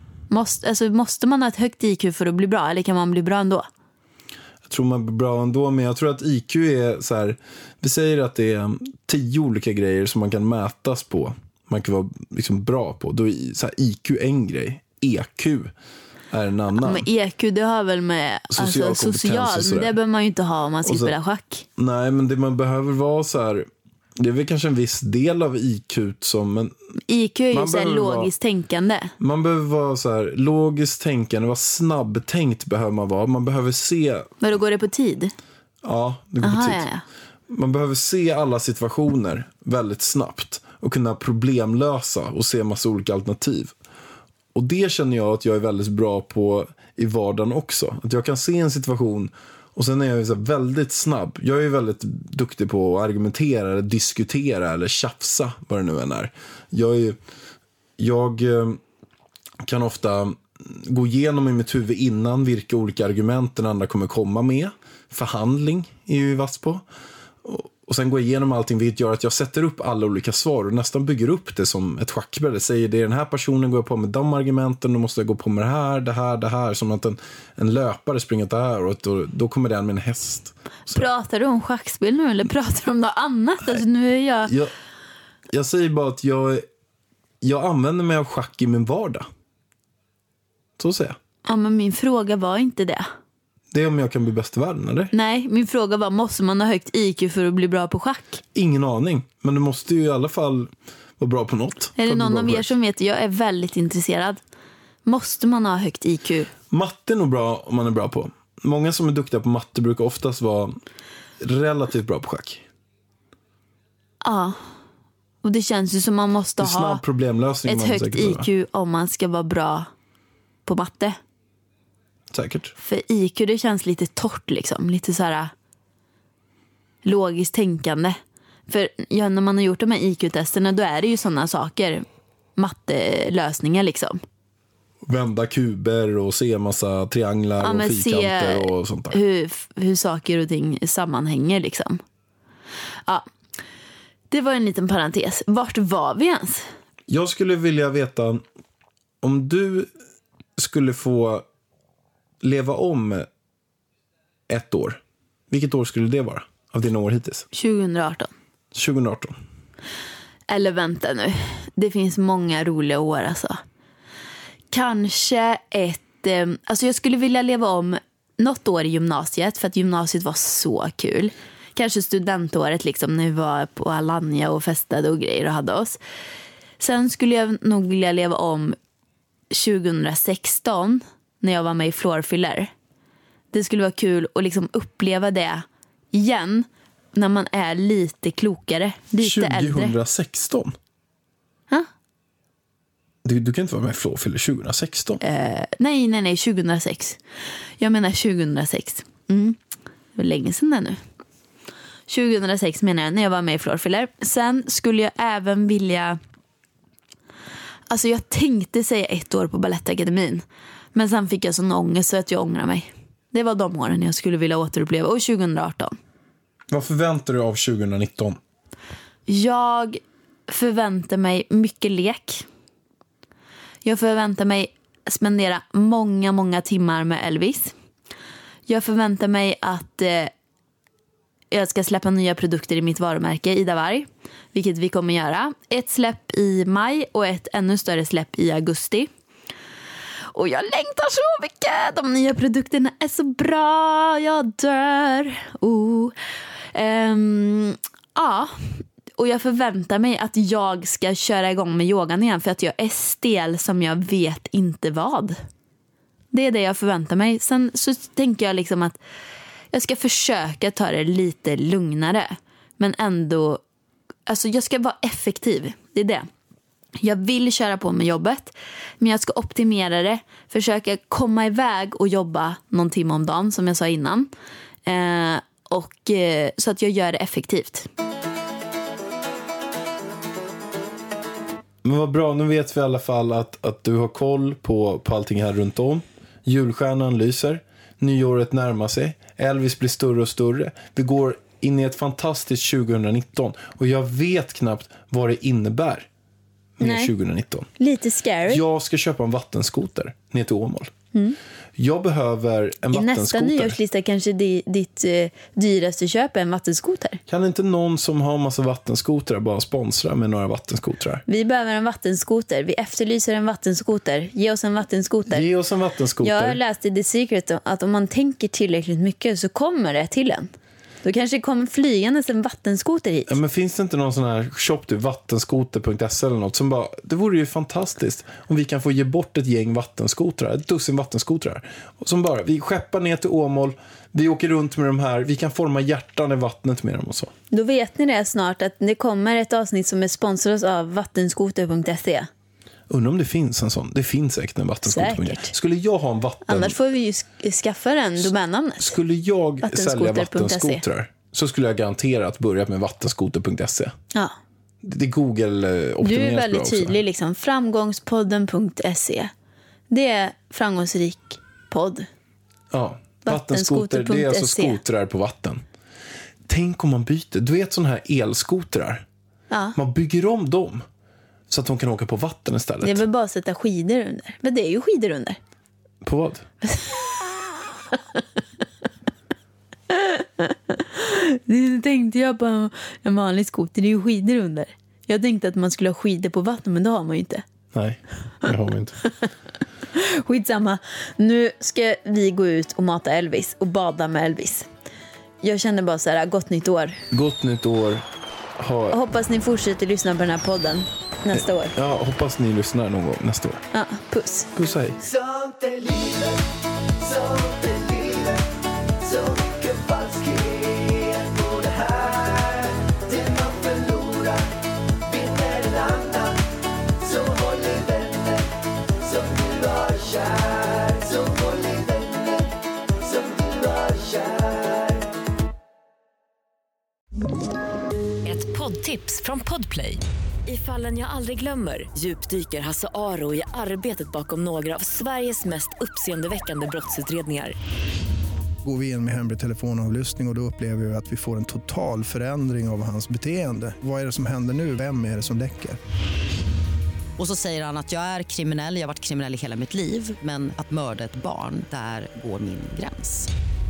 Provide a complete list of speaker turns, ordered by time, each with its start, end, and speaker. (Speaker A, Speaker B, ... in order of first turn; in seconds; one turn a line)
Speaker A: 0.3-3.7
Speaker B: 4.7-15.7
Speaker B: 16.3-17.1
Speaker A: 16.8-21.6
Speaker B: 18.5-19.9
Speaker B: 20.8-21.1
Speaker B: 21.8-26.7
Speaker A: 27.1-29.1
Speaker B: 27.5-28.3
Speaker B: 29.2-34.3
Speaker A: 34.4-35.3
Speaker B: 35.8-36.9
Speaker A: 36.4-37.0
Speaker B: 37.5-43.7
Speaker B: 44.5-57.2
Speaker B: 58.0-58.8
Speaker B: 59.6-66.8
Speaker B: 67.4-81.0
Speaker A: 80.9-84.5
Speaker B: 84.5-84.7
Speaker B: 85.5-86.6
Speaker B: 87.4-89.3
Speaker B: 90.8-91.2
Speaker A: 91.4-93.1
Speaker B: 93.7-95.1
Speaker A: 95.1-98.4
Speaker B: 98.5-102.7
Speaker A: 102.0-104.4
Speaker A: 105.0-106.5
Speaker B: 106.7-110.8
Speaker B: 111.4-112.6
Speaker A: 114.2-114.6
Speaker A: 115.4-117.0
Speaker B: 116.6-118.5
Speaker A: 117.6-119.9
Speaker A: 120.7-121.2
Speaker B: 122.3-122.7
Speaker A: 122.8-125.5
Speaker A: 127.0-128.2
Speaker A: 128.7-132.0
Speaker A: 132.6-134.2
Speaker B: 135.0-139.2
Speaker A: 137.6-142.0
Speaker A: 144.3-146.7
Speaker B: 147.1-148.4
Speaker B: 149.2-149.9
Speaker B: 150.6-151.4
Speaker B: 152.4-153.3
Speaker B: 154.5-157.4
Speaker A: 157.5-158.3
Speaker B: 158.7-159.4
Speaker A: 160.5-163.6
Speaker A: 164.7-176.0
Speaker A: 176.8-178.8
Speaker A: 179.5-182.7
Speaker A: 183.5-189.9
Speaker B: 189.2-190.8
Speaker B: 193.2-195.2
Speaker A: 195.2-197.2
Speaker A: 197.8-199.6
Speaker A: 200.2-201.0
Speaker A: 202.1-206.2
Speaker A: 207.9-210.4
Speaker A: 210.9-215.9
Speaker B: 216.7-218.4
Speaker A: 219.3-222.4
Speaker A: 223.8-227.7
Speaker A: 228.7-230.3
Speaker A: 231.5-239.1
Speaker A: 240.3-246.1
Speaker A: 246.7-255.4
Speaker A: 256.3-259.0
Speaker A: 259.7-263.6
Speaker A: 264.3-266.2
Speaker A: 267.0-274.3
Speaker A: 274.9-277.9
Speaker B: 281.8-296.1
Speaker B: 296.8-297.7
Speaker A: 296.8-297.1
Speaker A: 297.8-298.6
Speaker B: 298.5-300.9
Speaker B: 301.8-303.8
Speaker A: 302.9-307.2
Speaker B: 307.3-311.2
Speaker A: 311.3-315.4
Speaker B: 315.3-316.6
Speaker A: 316.2-320.5
Speaker A: 321.0-323.4
Speaker B: 323.3-337.3
Speaker A: 337.5-342.3
Speaker B: 342.9-346.8
Speaker A: 344.8-345.5
Speaker A: 346.4-348.9
Speaker B: 348.8-353.9
Speaker A: 349.6-350.8
Speaker B: 354.8-357.0
Speaker A: 356.0-359.3
Speaker A: 359.9-362.1
Speaker B: 362.7-365.6
Speaker A: 363.2-364.8
Speaker B: 366.5-369.0
Speaker A: 369.5-369.8
Speaker B: 369.7-370.8
Speaker B: 371.5-373.0
Speaker A: 372.8-375.4
Speaker B: 376.0-376.4
Speaker A: 376.7-377.0
Speaker A: 379.9-387.4
Speaker B: 387.7-389.0
Speaker A: 389.9-394.7
Speaker A: 395.4-397.0
Speaker B: 397.1-398.0
Speaker B: 398.6-399.0
Speaker A: 398.9-401.8
Speaker B: 401.3-403.6
Speaker A: 403.7-404.5
Speaker B: 404.5-405.0
Speaker C: 405.0-406.4
Speaker C: 407.0-414.5
Speaker C: 415.0-416.4
Speaker C: 417.0-425.0
Speaker D: 428.2-437.6
Speaker E: 438.6-445.8
Speaker F: 447.2-453.3